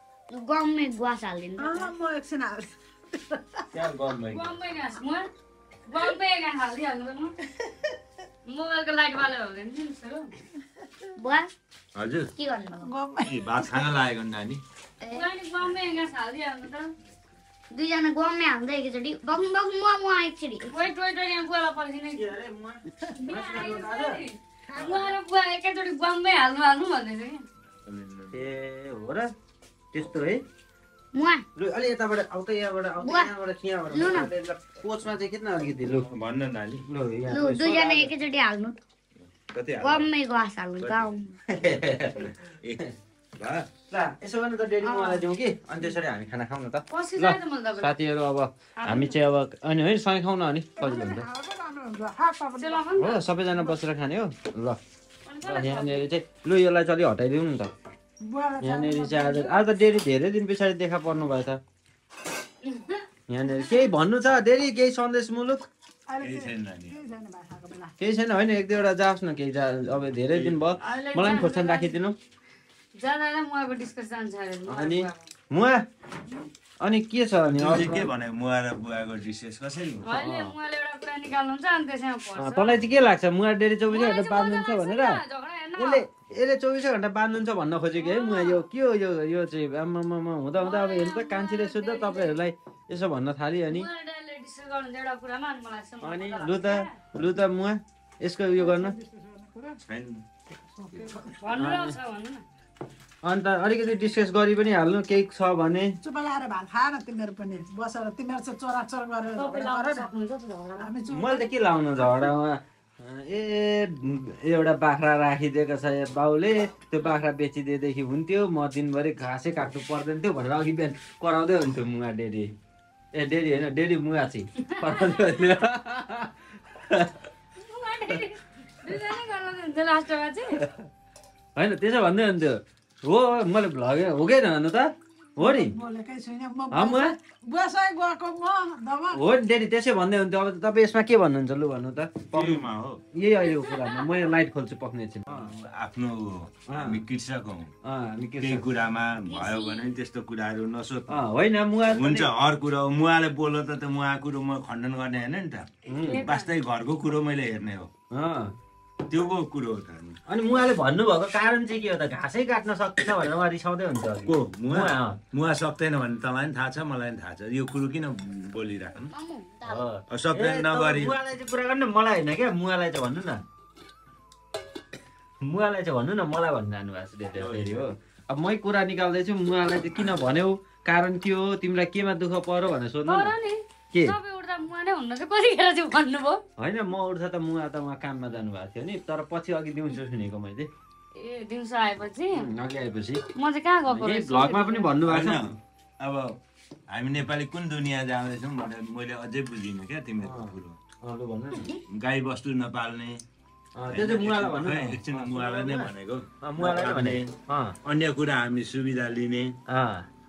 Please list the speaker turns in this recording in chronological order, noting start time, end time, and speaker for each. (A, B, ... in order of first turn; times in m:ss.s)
0:00.3-0:01.9 A
0:01.6-0:03.7 B
0:03.7-0:04.5 C
0:04.3-0:05.3 D
0:05.9-0:07.3 D
0:08.5-0:10.3 D
0:11.2-0:11.5 A
0:12.0-0:12.3 E
0:12.4-0:12.9 A
0:12.8-0:13.9 B
0:13.3-0:14.6 E
0:15.0-0:15.3 A
0:15.1-0:16.9 D
0:17.7-0:20.7 A
0:20.7-0:22.3 D
0:22.2-0:24.2 C
0:23.2-0:27.4 D
0:24.7-0:25.1 B
0:27.9-0:28.4 E
0:28.3-0:29.3 C
0:29.9-0:30.4 C
0:31.2-0:31.4 A
0:31.6-0:36.1 C
0:33.0-0:33.3 A
0:33.9-0:34.3 A
0:36.0-0:36.8 E
0:36.9-0:38.1 C
0:37.3-0:38.8 A
0:39.5-0:40.1 E
0:39.8-0:41.3 A
0:40.8-0:41.1 E
0:41.5-0:42.9 C
0:41.9-0:42.8 E
0:43.4-0:43.7 E
0:43.9-0:51.3 C
0:44.9-0:45.2 A
0:46.9-0:47.9 D
0:48.8-0:49.2 D
0:50.8-0:52.9 B
0:52.6-0:53.2 D
0:53.0-0:54.8 C
0:55.3-0:56.1 D
0:55.5-0:57.7 C
0:58.2-0:59.6 B
0:58.6-1:01.6 C
1:02.7-1:03.0 D
1:03.3-1:05.7 C
1:06.1-1:07.9 B
1:06.2-1:07.0 E
1:08.0-1:12.2 C
1:10.3-1:10.8 E
1:10.8-1:12.0 D
1:13.0-1:15.3 D
1:14.7-1:15.8 C
1:16.8-1:18.1 C
1:17.5-1:20.1 E
1:20.0-1:20.6 C
1:20.0-1:22.8 D
1:22.4-1:25.2 C
1:23.9-1:26.0 D
1:25.8-1:33.9 C
1:28.0-1:28.7 D
1:30.6-1:32.4 D
1:33.7-1:37.0 D
1:36.0-1:39.0 C
1:38.6-1:39.8 B
1:39.9-1:40.2 E
1:40.8-1:41.4 B
1:41.4-1:42.4 D
1:41.6-1:42.0 C
1:43.2-1:46.0 C
1:46.0-1:50.1 B
1:49.4-1:50.9 D
1:50.8-1:51.5 B
1:51.1-2:02.6 C
2:03.1-2:07.2 C
2:04.7-2:05.2 D
2:07.6-2:10.6 D
2:10.6-2:10.8 C
2:11.6-2:15.8 C
2:15.4-2:19.2 B
2:16.7-2:17.1 C
2:19.1-2:25.5 C
2:22.3-2:23.0 E
2:25.3-2:27.7 E
2:26.7-2:27.0 C
2:27.8-2:28.7 C
2:28.4-2:31.2 E
2:29.3-2:30.0 A
2:31.1-2:32.3 C
2:31.9-2:37.9 E
2:35.9-2:36.2 C
2:36.0-2:36.6 D
2:38.1-2:38.5 C
2:39.0-2:40.2 E
2:40.3-2:45.2 C
2:44.3-2:49.1 E
2:49.1-2:49.9 A
2:49.7-2:53.4 C
2:50.1-2:51.2 E
2:55.4-3:03.4 C
2:57.4-2:57.9 E
3:03.1-3:06.4 D
3:03.9-3:04.2 C
3:06.6-3:10.7 C
3:11.2-3:12.5 D
3:12.3-3:13.3 C
3:13.4-3:15.0 D
3:13.9-3:15.5 C
3:15.1-3:16.4 E
3:16.9-3:20.8 E
3:20.2-3:21.8 C
3:21.9-3:23.2 E
3:23.8-3:27.8 C
3:23.8-3:27.3 E
3:27.8-3:29.6 E
3:29.7-3:30.1 C